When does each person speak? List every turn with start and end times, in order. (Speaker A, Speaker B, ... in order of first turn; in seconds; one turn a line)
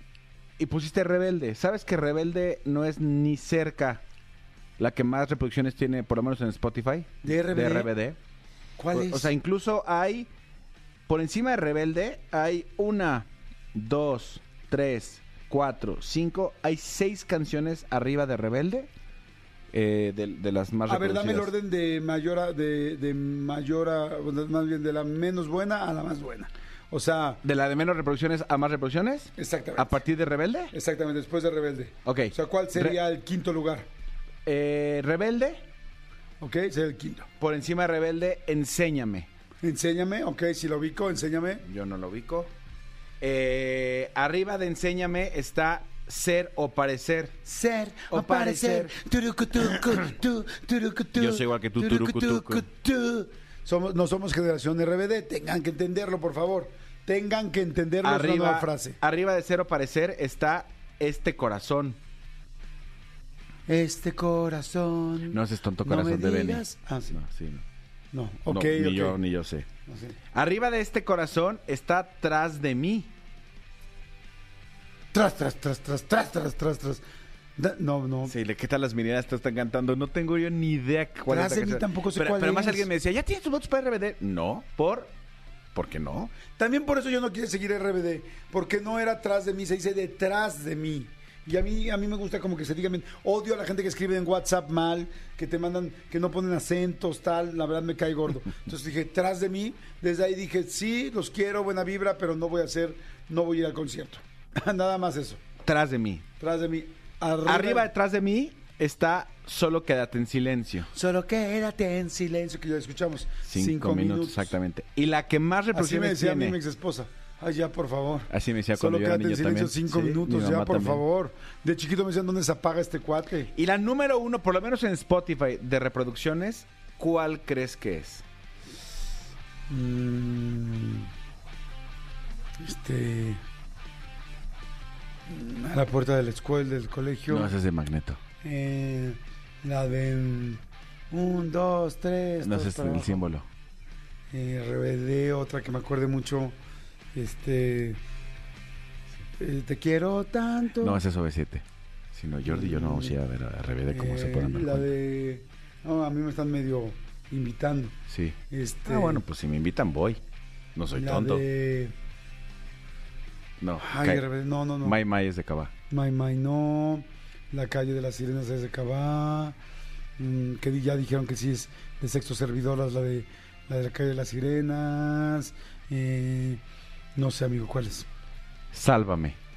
Speaker A: 0.6-4.0
Speaker A: 4.8-8.2
Speaker B: 7.2-7.9
Speaker B: 8.8-9.3
Speaker A: 8.9-10.3
Speaker A: 11.1-18.9
Speaker A: 19.7-21.5
Speaker B: 20.9-27.4
Speaker A: 27.4-30.7
Speaker B: 29.4-30.0
Speaker B: 30.7-33.9
Speaker A: 32.0-33.0
Speaker A: 34.5-35.6
Speaker B: 36.4-37.3
Speaker A: 37.4-39.3
Speaker B: 39.6-41.7
Speaker A: 41.6-42.5
Speaker A: 43.2-47.4
Speaker B: 47.5-59.0
Speaker A: 48.1-48.9
Speaker A: 51.2-52.7
Speaker A: 58.0-62.0
Speaker B: 63.7-67.2
Speaker A: 65.3-67.6
Speaker B: 68.1-69.2
Speaker A: 68.5-69.7
Speaker B: 69.9-70.2
Speaker A: 70.3-73.1
Speaker B: 75.1-77.0
Speaker B: 77.6-78.3
Speaker A: 78.2-85.1
Speaker B: 81.3-82.9
Speaker A: 85.7-86.3
Speaker B: 86.6-105.4
Speaker A: 105.6-106.2
Speaker B: 106.4-107.9
Speaker A: 107.5-110.9
Speaker B: 110.9-114.5
Speaker A: 113.5-116.6
Speaker B: 115.7-123.5
Speaker A: 118.3-121.0
Speaker A: 123.5-128.2
Speaker B: 129.7-131.1
Speaker B: 132.6-133.4
Speaker B: 135.3-137.5
Speaker A: 137.3-138.2
Speaker B: 138.4-143.2
Speaker A: 142.4-143.5
Speaker B: 144.3-146.6
Speaker B: 147.1-148.0
Speaker B: 149.4-151.0
Speaker A: 150.8-154.9
Speaker B: 152.4-153.2
Speaker B: 153.9-157.9
Speaker A: 158.1-160.2
Speaker B: 158.5-159.2
Speaker A: 160.8-161.4
Speaker B: 160.9-161.9
Speaker A: 163.6-164.3
Speaker B: 163.8-165.0
Speaker A: 164.8-165.7
Speaker B: 165.9-169.6
Speaker B: 170.2-176.6
Speaker B: 177.2-178.1
Speaker A: 178.7-179.4